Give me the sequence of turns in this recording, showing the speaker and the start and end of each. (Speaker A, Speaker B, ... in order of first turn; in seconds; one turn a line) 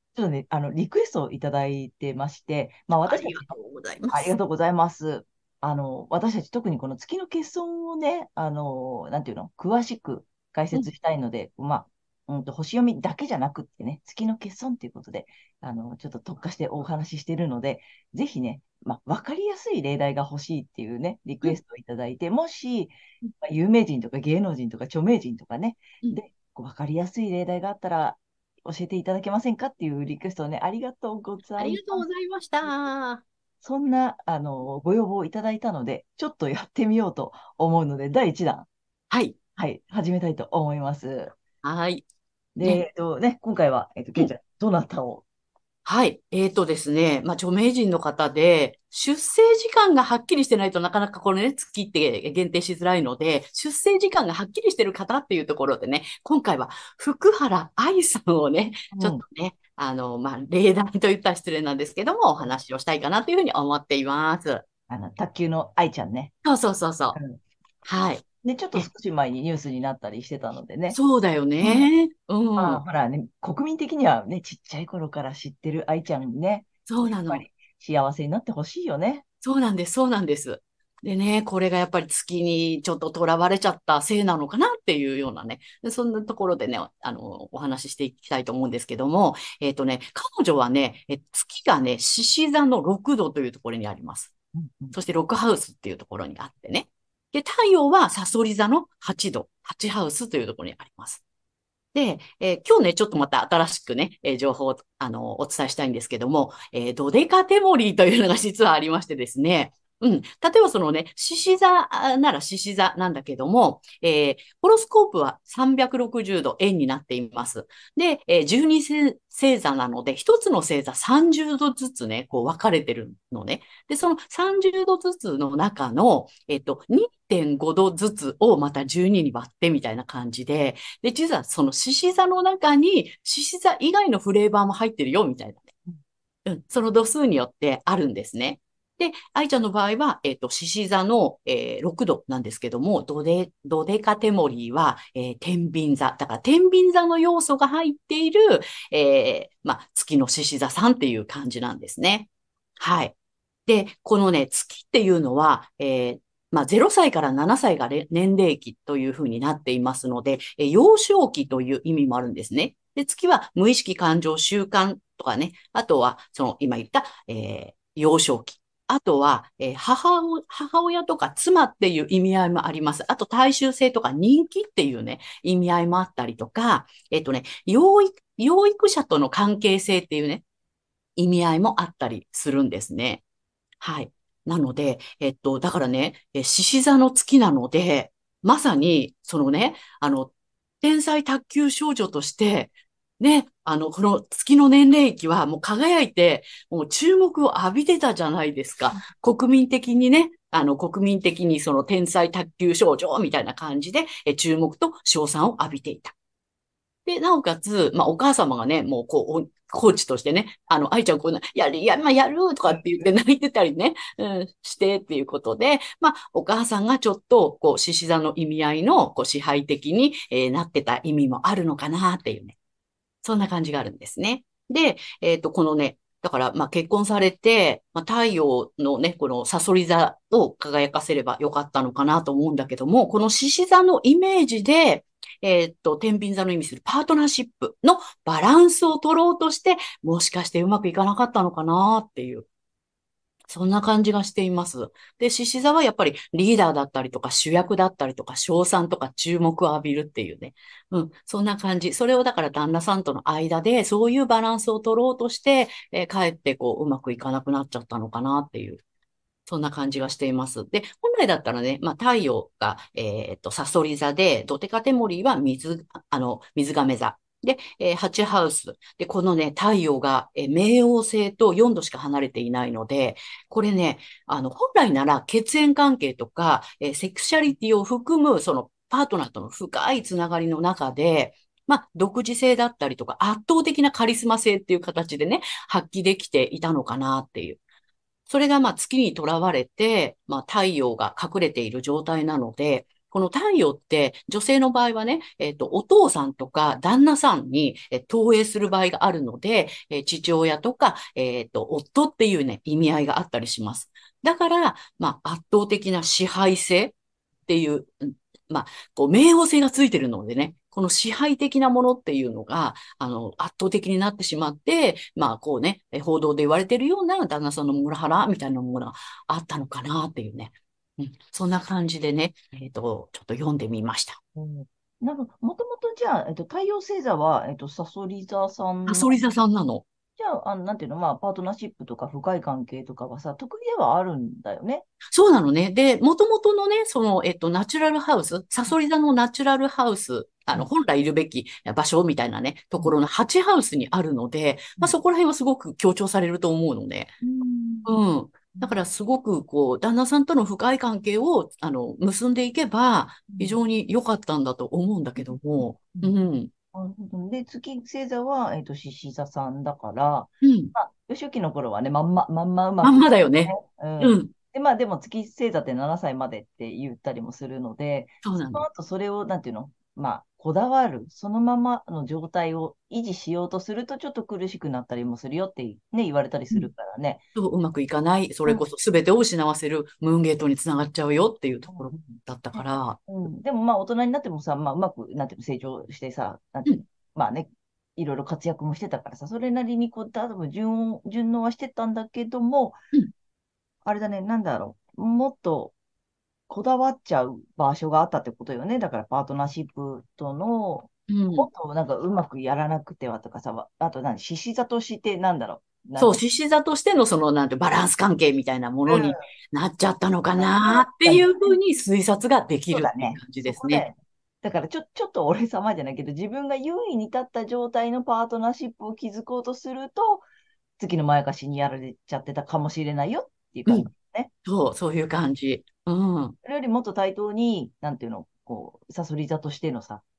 Speaker A: 0.1-3.5
Speaker B: 3.0-4.4
Speaker A: 4.1-32.1
Speaker B: 31.6-33.2
Speaker A: 32.6-32.9
Speaker A: 33.6-38.7
Speaker B: 39.1-39.4
Speaker A: 39.6-41.4
Speaker B: 41.6-42.0
Speaker A: 42.6-45.2
Speaker B: 45.9-64.6
Speaker A: 58.9-59.2
Speaker A: 64.9-66.3
Speaker B: 66.4-67.2
Speaker B: 67.8-68.2
Speaker A: 68.4-71.0
Speaker B: 70.9-72.8
Speaker A: 71.6-71.9
Speaker A: 72.6-79.2
Speaker B: 76.9-77.5
Speaker B: 79.4-94.3
Speaker A: 94.5-95.0
Speaker B: 94.9-101.2
Speaker B: 101.9-135.7
Speaker B: 136.5-152.3
Speaker B: 152.8-153.1
Speaker B: 153.7-180.4
Speaker B: 181.2-183.2
Speaker B: 183.8-206.1
Speaker B: 207.1-222.6
Speaker A: 212.7-213.1
Speaker B: 223.2-242.5
Speaker B: 243.5-258.8
Speaker B: 259.5-287.6
Speaker B: 288.3-307.0
Speaker B: 307.5-324.2
Speaker A: 324.4-329.2
Speaker B: 328.9-329.8
Speaker A: 330.2-334.9
Speaker B: 335.1-347.2
Speaker A: 347.2-348.0
Speaker B: 347.9-356.5
Speaker A: 355.2-356.1
Speaker A: 356.7-377.2
Speaker B: 360.4-360.7
Speaker B: 362.8-364.3
Speaker B: 368.2-368.6
Speaker B: 377.4-383.0
Speaker A: 381.7-392.8
Speaker A: 393.9-395.7
Speaker A: 396.5-406.2
Speaker B: 401.1-401.5
Speaker B: 406.0-413.9
Speaker A: 408.9-409.3
Speaker A: 410.4-411.6
Speaker A: 412.7-420.3
Speaker A: 420.8-424.3
Speaker B: 424.4-426.4
Speaker A: 426.4-430.0